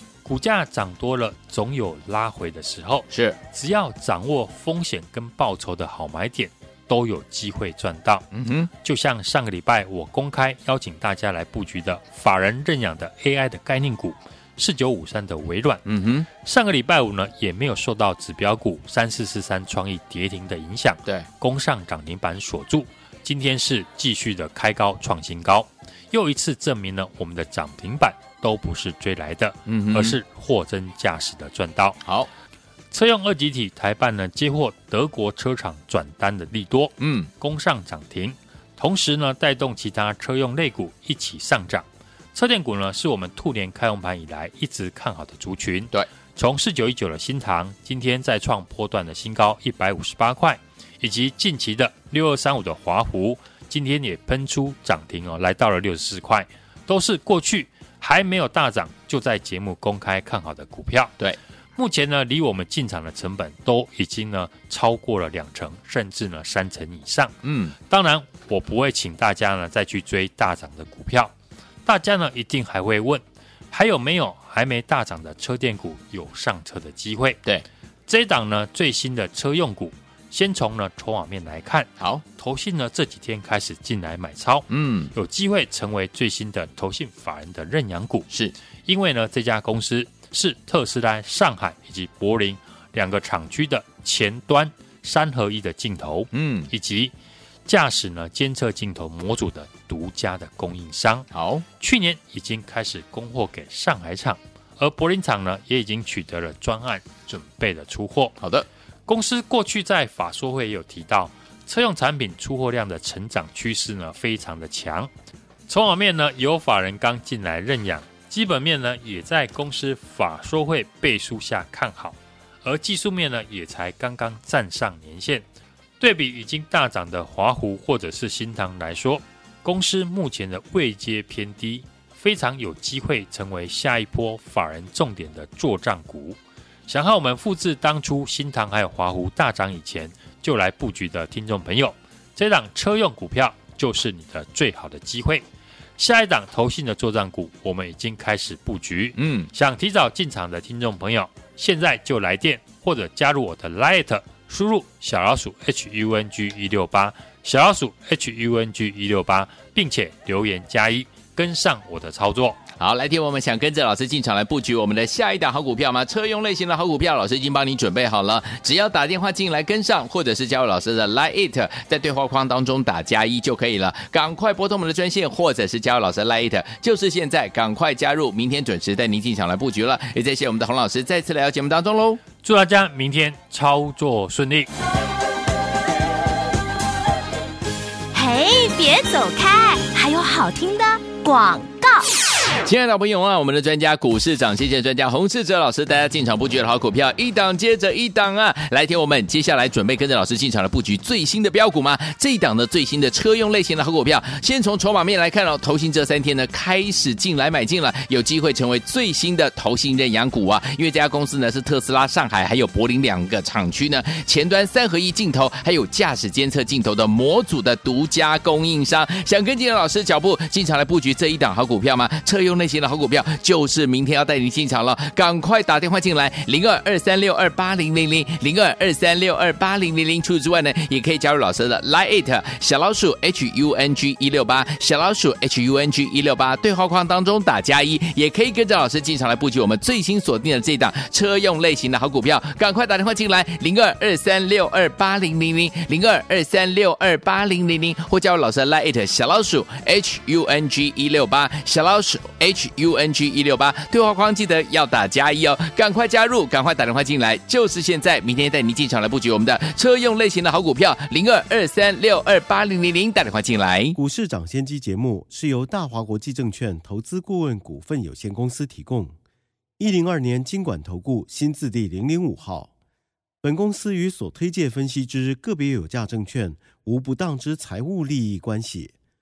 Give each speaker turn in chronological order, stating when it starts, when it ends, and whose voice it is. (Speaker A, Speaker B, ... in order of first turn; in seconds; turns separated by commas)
Speaker A: 0.2-8.2, Speaker B: 3.1-3.4, Speaker B: 8.3-8.7, Speaker A: 8.8-15.8, Speaker B: 15.8-16.3, Speaker A: 16.4-32.0, Speaker B: 29.7-30.2, Speaker B: 32.0-32.3, Speaker A: 32.9-61.1, Speaker B: 37.0-37.3, Speaker A: 61.8-67.3, Speaker B: 67.4-67.8, Speaker A: 67.8-71.3, Speaker A: 71.8-77.4, Speaker A: 78.1-88.3, Speaker B: 84.7-85.1, Speaker A: 88.8-97.1, Speaker B: 96.3-96.7, Speaker A: 97.7-101.3, Speaker B: 101.3-101.6, Speaker A: 101.8-108.3, Speaker B: 108.4-108.7, Speaker A: 109.1-115.1, Speaker A: 115.7-125.4, Speaker A: 126.0-145.4, Speaker A: 146.0-162.6, Speaker B: 149.2-149.5, Speaker B: 162.8-182.2, Speaker A: 182.4-184.7, Speaker C: 188.1-192.1, Speaker B: 192.6-264.0, Speaker D: 263.9-269.1, Speaker D: 269.8-272.7, Speaker D: 273.4-278.9